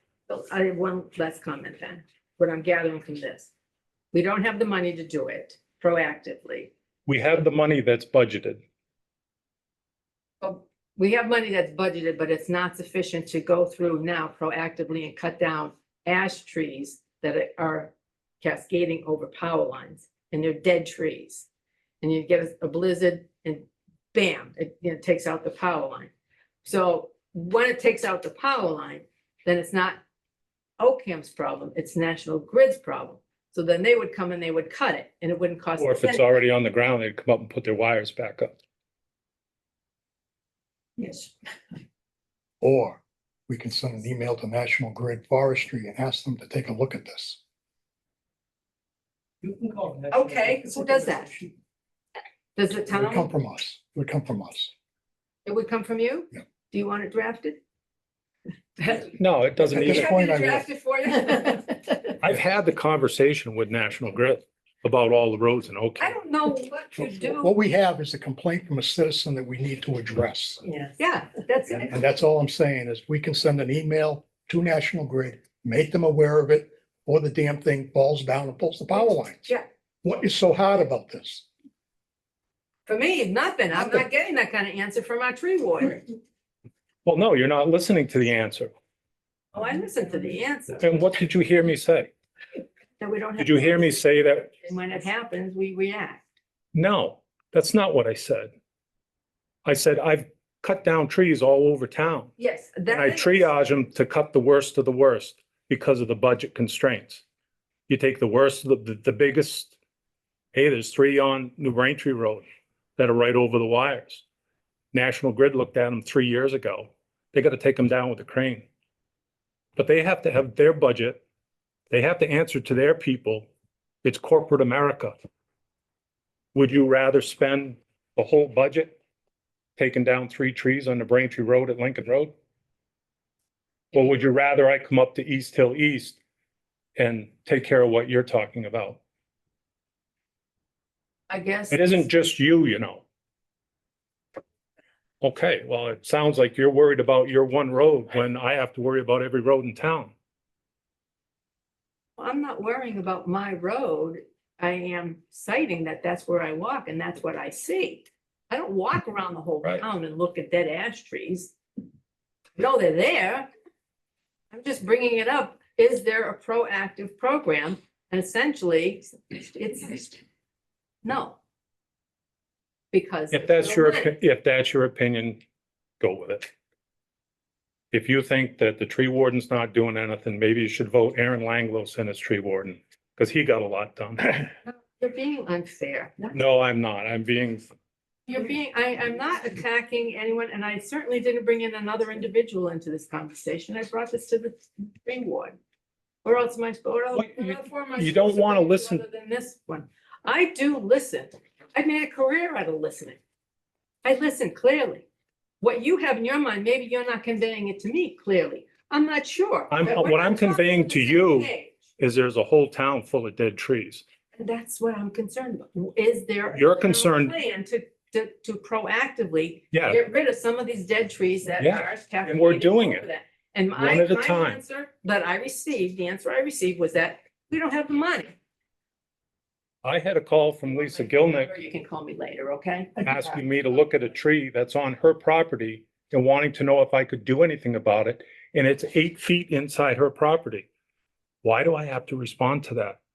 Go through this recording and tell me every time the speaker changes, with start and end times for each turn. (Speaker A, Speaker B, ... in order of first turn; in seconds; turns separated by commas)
Speaker A: 0.3-3.5, Speaker A: 4.1-6.7, Speaker B: 7.1-8.6, Speaker A: 10.4-21.5, Speaker A: 22.0-26.1, Speaker A: 26.6-30.0, Speaker A: 30.8-36.3, Speaker B: 35.8-38.6, Speaker A: 41.0-41.3, Speaker C: 42.6-47.4, Speaker B: 49.4-50.9, Speaker A: 50.1-51.3, Speaker A: 52.5-53.3, Speaker C: 52.9-54.7, Speaker A: 55.5-57.6, Speaker A: 58.8-59.1, Speaker B: 59.2-60.1, Speaker C: 59.7-60.7, Speaker A: 59.8-62.1, Speaker B: 62.2-66.2, Speaker A: 66.0-67.5, Speaker C: 67.2-70.6, Speaker A: 70.6-71.9, Speaker C: 71.8-81.5, Speaker A: 79.0-79.6, Speaker A: 82.9-86.0, Speaker B: 87.0-88.7, Speaker A: 89.5-91.0, Speaker B: 90.8-92.1, Speaker A: 93.0-96.2, Speaker B: 93.4-94.5, Speaker B: 96.7-98.5, Speaker B: 99.7-102.3, Speaker A: 102.4-103.5, Speaker B: 102.9-107.2, Speaker B: 107.9-109.8, Speaker B: 110.5-112.5, Speaker B: 113.0-114.2, Speaker B: 114.9-118.7, Speaker B: 119.8-121.2, Speaker B: 121.9-123.5, Speaker B: 124.0-125.2, Speaker B: 126.5-129.0, Speaker B: 129.8-132.3, Speaker B: 133.9-136.2, Speaker B: 137.0-139.0, Speaker A: 141.3-142.1, Speaker B: 141.7-143.0, Speaker B: 145.2-150.1, Speaker A: 152.2-161.5, Speaker A: 162.6-163.5, Speaker A: 164.5-170.2, Speaker A: 171.0-171.4, Speaker A: 172.9-174.1, Speaker B: 173.3-175.4, Speaker B: 176.0-176.5, Speaker B: 177.9-184.4, Speaker A: 184.4-186.3, Speaker B: 186.3-187.7, Speaker A: 188.3-195.6, Speaker A: 196.2-203.2, Speaker B: 197.2-199.0, Speaker A: 204.0-205.1, Speaker A: 205.6-211.8, Speaker B: 209.7-214.0, Speaker A: 214.3-228.3, Speaker B: 216.5-217.3, Speaker B: 219.7-220.0, Speaker B: 221.6-223.0, Speaker B: 223.8-224.6, Speaker B: 229.8-231.5, Speaker A: 230.7-233.3, Speaker B: 233.0-240.7, Speaker B: 241.4-243.0